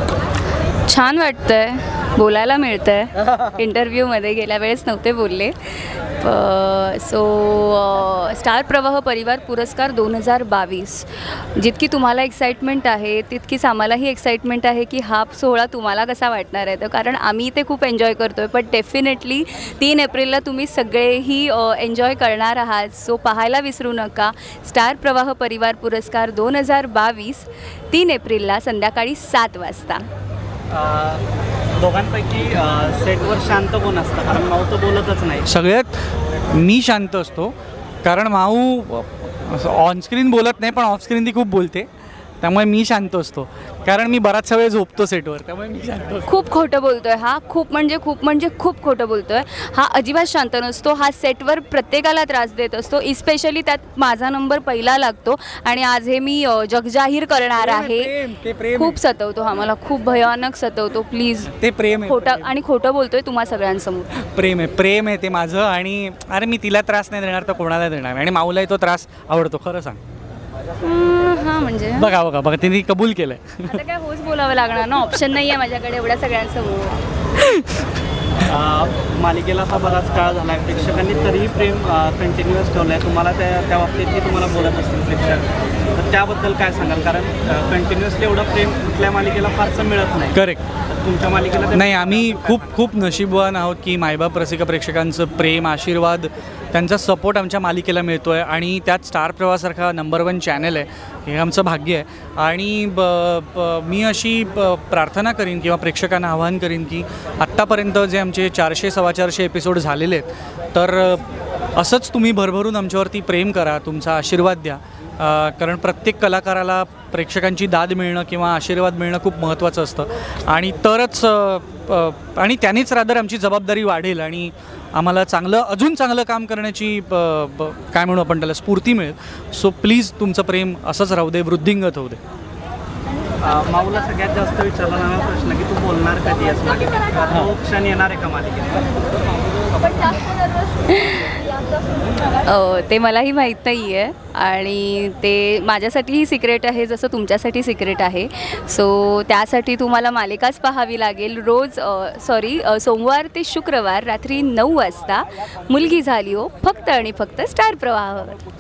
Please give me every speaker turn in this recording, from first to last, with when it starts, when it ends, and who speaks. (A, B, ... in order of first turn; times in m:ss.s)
0:00.8-0:30.0 A
0:30.7-0:31.2 B
0:31.8-0:35.5 B
0:35.5-0:41.9 C
0:42.4-0:46.3 C
0:46.2-0:58.1 A
0:57.6-0:59.0 C
0:58.7-1:04.2 A
1:01.5-1:02.5 C
1:04.2-1:10.0 C
1:10.8-1:12.1 A
1:12.0-1:13.8 C
1:13.6-1:17.0 A
1:18.4-1:32.7 B
1:30.3-1:30.7 C
1:31.7-1:51.2 C
1:51.8-2:12.2 C
2:13.4-2:18.9 B
2:20.3-2:21.4 A
2:22.4-2:38.4 A